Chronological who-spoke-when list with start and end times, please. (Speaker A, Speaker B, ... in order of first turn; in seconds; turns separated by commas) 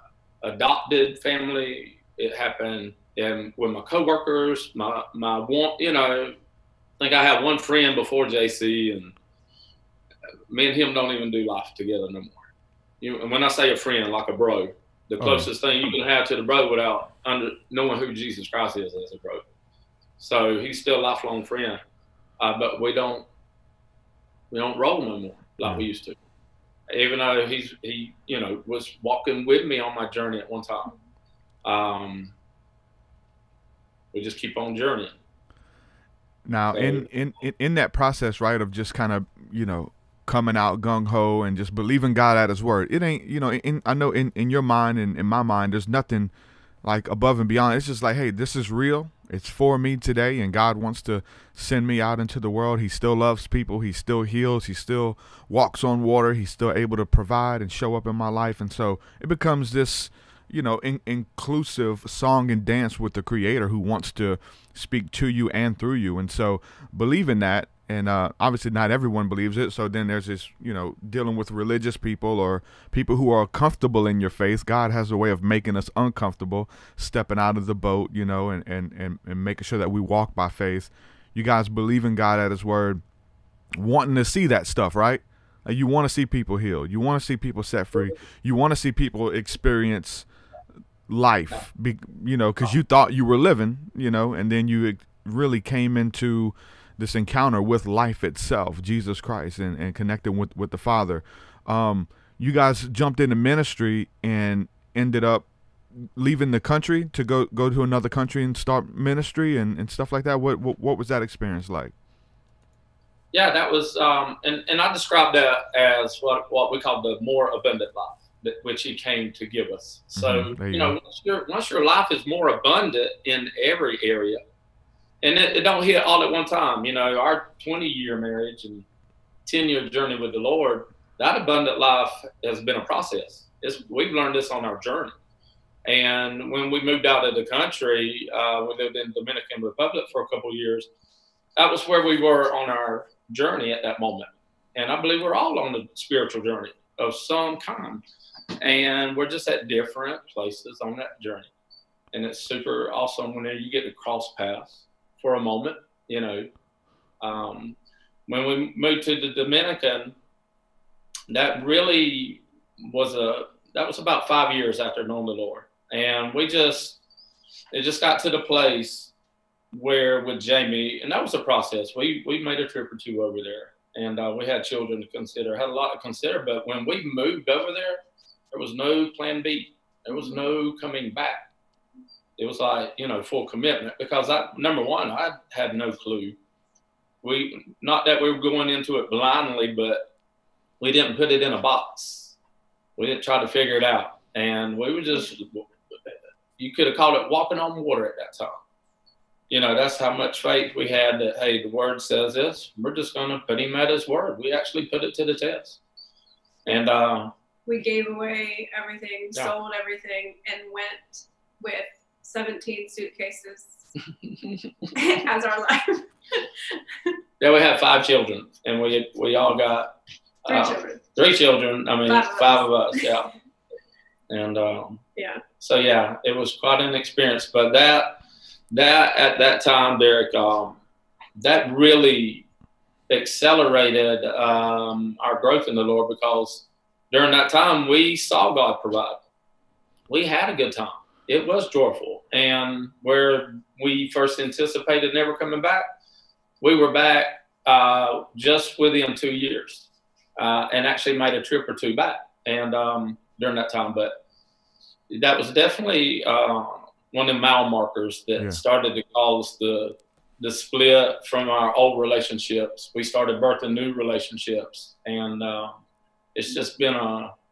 Speaker A: 0.4-6.3, Speaker A: 7.0-9.2, Speaker A: 10.5-12.5, Speaker A: 13.0-19.4, Speaker B: 15.2-15.5, Speaker A: 20.2-21.8, Speaker A: 22.4-23.3, Speaker A: 24.5-26.2, Speaker A: 26.9-30.9, Speaker A: 31.6-32.3, Speaker A: 34.1-35.2, Speaker B: 36.5-46.3, Speaker A: 36.7-37.1, Speaker B: 46.8-83.0, Speaker B: 83.8-90.3, Speaker B: 91.1-105.5, Speaker B: 106.0-111.9, Speaker A: 113.3-124.4, Speaker B: 120.2-121.0, Speaker A: 125.2-128.8, Speaker A: 129.5-135.1, Speaker A: 135.8-140.9, Speaker A: 141.6-148.0, Speaker A: 148.6-151.5, Speaker A: 152.1-156.5, Speaker A: 157.2-160.2, Speaker A: 161.3-167.0, Speaker A: 167.7-169.1, Speaker A: 169.7-178.0, Speaker A: 178.5-181.5, Speaker A: 182.4-186.4, Speaker A: 187.2-190.0, Speaker A: 190.8-192.3, Speaker A: 193.0-198.6, Speaker A: 199.5-205.8, Speaker A: 206.7-207.3, Speaker C: 207.7-213.8, Speaker A: 214.2-214.9, Speaker C: 214.9-217.1, Speaker A: 217.4-219.9, Speaker A: 220.5-223.3, Speaker C: 220.5-221.0, Speaker C: 222.1-223.1, Speaker A: 224.3-225.0, Speaker C: 225.2-225.4, Speaker A: 225.6-228.2, Speaker A: 228.7-230.8, Speaker A: 231.4-232.5, Speaker A: 233.1-239.2, Speaker A: 240.1-245.9, Speaker A: 246.6-249.9, Speaker A: 250.4-254.2, Speaker A: 255.1-265.8, Speaker A: 266.4-267.3